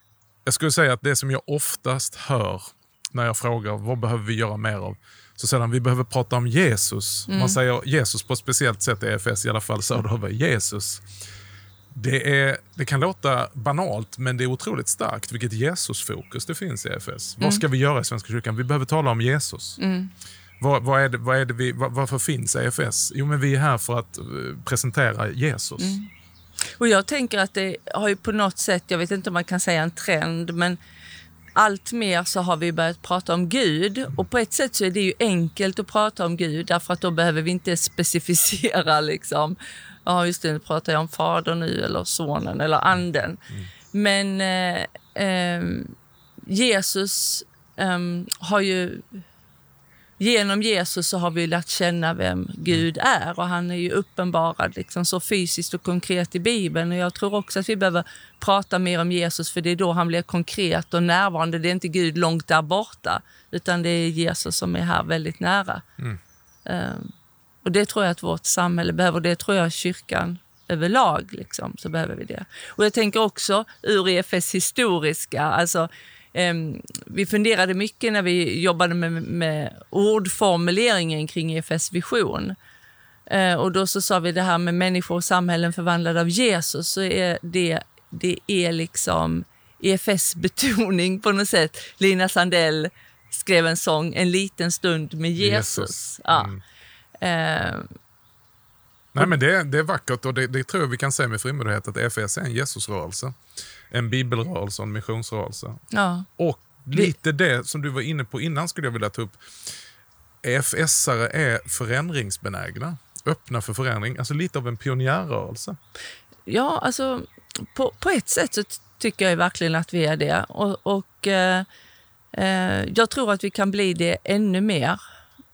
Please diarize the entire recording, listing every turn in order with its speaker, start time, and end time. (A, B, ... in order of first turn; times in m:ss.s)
0:00.4-0:11.0 A
0:07.3-0:07.6 B
0:11.9-0:19.8 A
0:19.8-0:20.1 B
0:20.6-0:26.0 A
0:25.8-0:26.1 B
0:26.8-0:30.8 B
0:31.6-0:49.2 B
0:50.2-1:05.8 B
1:06.7-1:22.6 B
1:23.3-1:36.5 B
1:35.4-1:36.6 A
1:37.2-1:37.9 B
1:39.2-1:43.4 A
1:43.9-1:45.8 A
1:45.9-1:46.3 B
1:46.4-1:49.4 A
1:50.4-1:55.8 A
1:56.5-2:01.7 B
2:02.3-2:05.0 B